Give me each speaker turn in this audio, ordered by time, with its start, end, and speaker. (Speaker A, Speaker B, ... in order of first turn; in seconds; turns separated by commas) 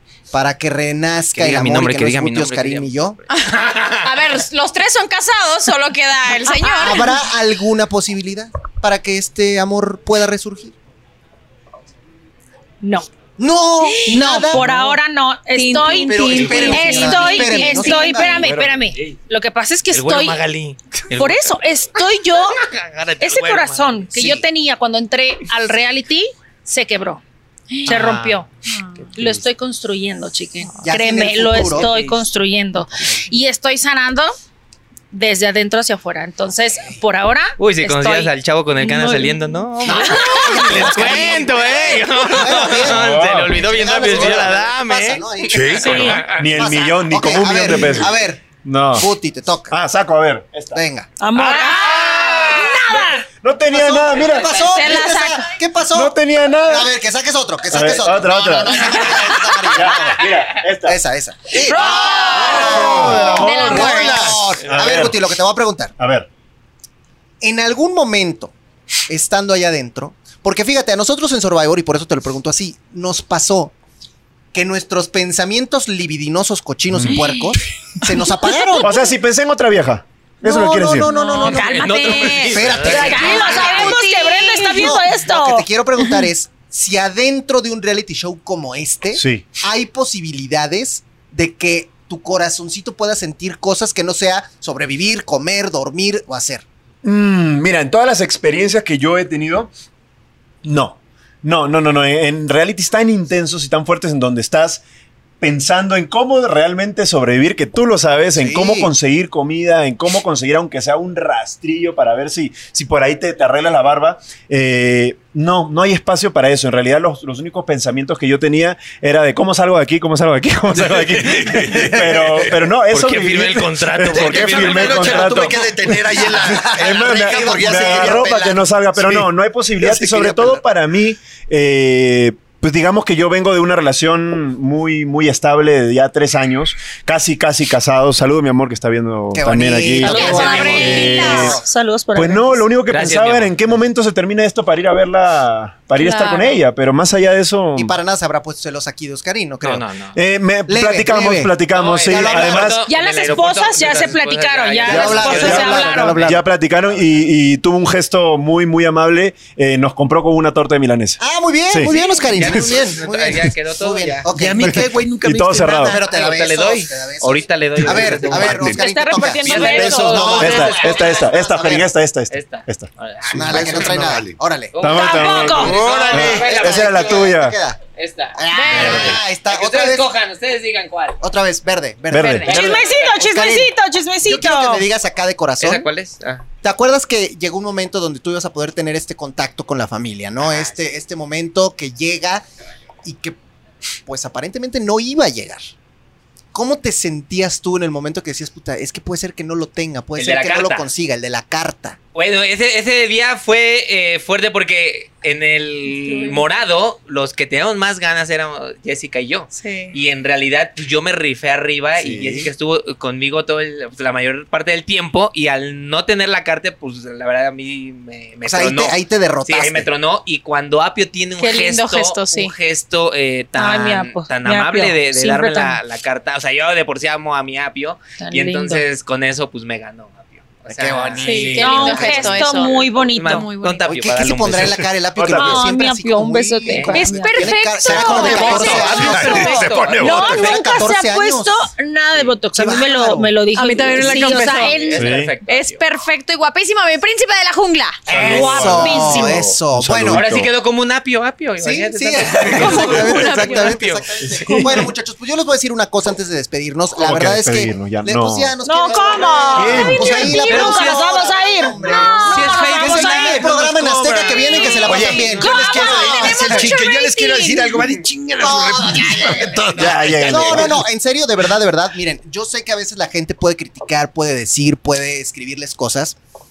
Speaker A: 0.3-3.2, Speaker B: 1.3-3.9, Speaker C: 3.3-7.1, Speaker D: 6.6-7.1, Speaker A: 6.8-10.7, Speaker D: 12.8-13.1, Speaker A: 13.4-14.8, Speaker D: 13.9-20.4, Speaker C: 15.5-18.1, Speaker A: 16.0-18.5, Speaker E: 18.2-18.8, Speaker B: 19.9-21.6, Speaker D: 21.1-22.7, Speaker B: 22.4-24.1, Speaker D: 23.2-27.2, Speaker A: 24.1-24.4, Speaker D: 27.8-28.5, Speaker B: 27.9-28.4, Speaker B: 28.9-29.4, Speaker D: 29.1-34.3, Speaker A: 30.8-31.9, Speaker B: 31.6-32.2, Speaker D: 35.1-41.2, Speaker B: 37.6-46.4, Speaker A: 39.8-48.4, Speaker E: 42.7-44.5, Speaker F: 45.5-46.2, Speaker D: 45.7-46.3, Speaker E: 46.3-49.1, Speaker A: 49.0-49.7, Speaker E: 49.7-50.8, Speaker A: 50.7-51.1, Speaker D: 51.2-53.2, Speaker E: 51.4-54.5, Speaker A: 53.7-56.1, Speaker C: 54.5-55.5, Speaker E: 55.9-56.9, Speaker A: 56.6-60.3, Speaker E: 57.7-61.0, Speaker A: 60.8-65.9, Speaker F: 61.5-64.7, Speaker C: 61.6-64.3, Speaker E: 62.3-65.2, Speaker E: 66.0-66.3, Speaker A: 67.4-68.5, Speaker A: 69.1-73.7, Speaker A: 74.5-79.0, Speaker E: 76.9-77.2, Speaker E: 78.8-81.1, Speaker A: 80.4-96.6, Speaker C: 81.1-84.8, Speaker D: 81.1-85.6, Speaker B: 81.5-83.9, Speaker E: 89.1-89.5, Speaker E: 97.0-99.7, Speaker E: 100.6-104.8, Speaker E: 105.4-141.6, Speaker A: 108.4-108.9, Speaker F: 121.2-122.5, Speaker B: 122.9-125.6, Speaker F: 124.1-129.3, Speaker A: 126.8-128.3, Speaker F: 129.8-130.2, Speaker A: 130.0-130.6, Speaker A: 139.3-141.6, Speaker D: 140.0-142.6, Speaker C: 140.0-141.3, Speaker E: 142.1-148.0, Speaker B: 142.9-143.6, Speaker C: 146.0-146.6, Speaker A: 147.8-149.8, Speaker B: 149.6-150.2, Speaker E: 150.1-152.8, Speaker A: 150.7-152.8, Speaker B: 151.7-156.3, Speaker D: 152.8-156.3, Speaker E: 154.8-162.8, Speaker A: 154.8-156.4, Speaker A: 161.2-171.9, Speaker C: 161.9-162.1, Speaker B: 162.3-164.3, Speaker F: 164.3-165.9, Speaker E: 164.6-165.9, Speaker B: 165.8-168.8, Speaker E: 167.8-168.8, Speaker D: 168.7-170.8, Speaker B: 169.4-171.3, Speaker E: 170.1-172.9, Speaker B: 172.3-173.9, Speaker F: 173.3-174.4, Speaker A: 173.3-175.0, Speaker B: 174.7-177.3, Speaker E: 174.8-177.6, Speaker D: 174.8-175.8, Speaker F: 175.6-176.5, Speaker A: 175.7-177.8, Speaker B: 177.9-181.2, Speaker A: 178.3-180.1, Speaker C: 178.5-179.1, Speaker E: 178.7-179.2, Speaker A: 181.2-183.7, Speaker E: 182.1-182.8, Speaker B: 182.2-183.3, Speaker D: 182.4-184.9, Speaker A: 184.2-185.9, Speaker B: 185.6-186.4, Speaker A: 186.6-192.5, Speaker B: 190.4-190.7, Speaker A: 193.0-193.4, Speaker A: 194.1-195.6, Speaker A: 196.5-202.0, Speaker B: 200.2-200.9, Speaker B: 202.1-234.9, Speaker C: 206.0-206.5, Speaker C: 209.5-209.9, Speaker A: 212.0-212.5, Speaker A: 218.4-219.9, Speaker C: 221.4-222.5, Speaker D: 223.6-225.8, Speaker D: 228.2-228.8, Speaker A: 230.7-231.6, Speaker D: 231.2-233.5, Speaker C: 231.2-233.9, Speaker A: 233.8-241.7, Speaker E: 235.1-235.7, Speaker D: 235.3-245.1, Speaker C: 236.8-239.4, Speaker F: 237.9-240.5, Speaker B: 238.5-240.1, Speaker A: 242.5-243.3, Speaker C: 243.5-244.8, Speaker B: 244.1-245.8, Speaker E: 245.0-245.3, Speaker C: 245.5-248.0, Speaker E: 248.1-250.5, Speaker B: 248.1-248.8, Speaker D: 248.2-249.5, Speaker A: 248.2-250.2, Speaker B: 250.1-254.8, Speaker A: 251.6-266.6, Speaker C: 252.4-253.8, Speaker E: 254.2-254.9, Speaker E: 257.0-258.5, Speaker D: 258.6-263.5, Speaker E: 259.5-260.4, Speaker B: 260.4-265.3, Speaker C: 264.1-267.8, Speaker F: 264.8-270.8, Speaker D: 265.3-266.2, Speaker A: 268.4-276.2, Speaker E: 269.8-270.8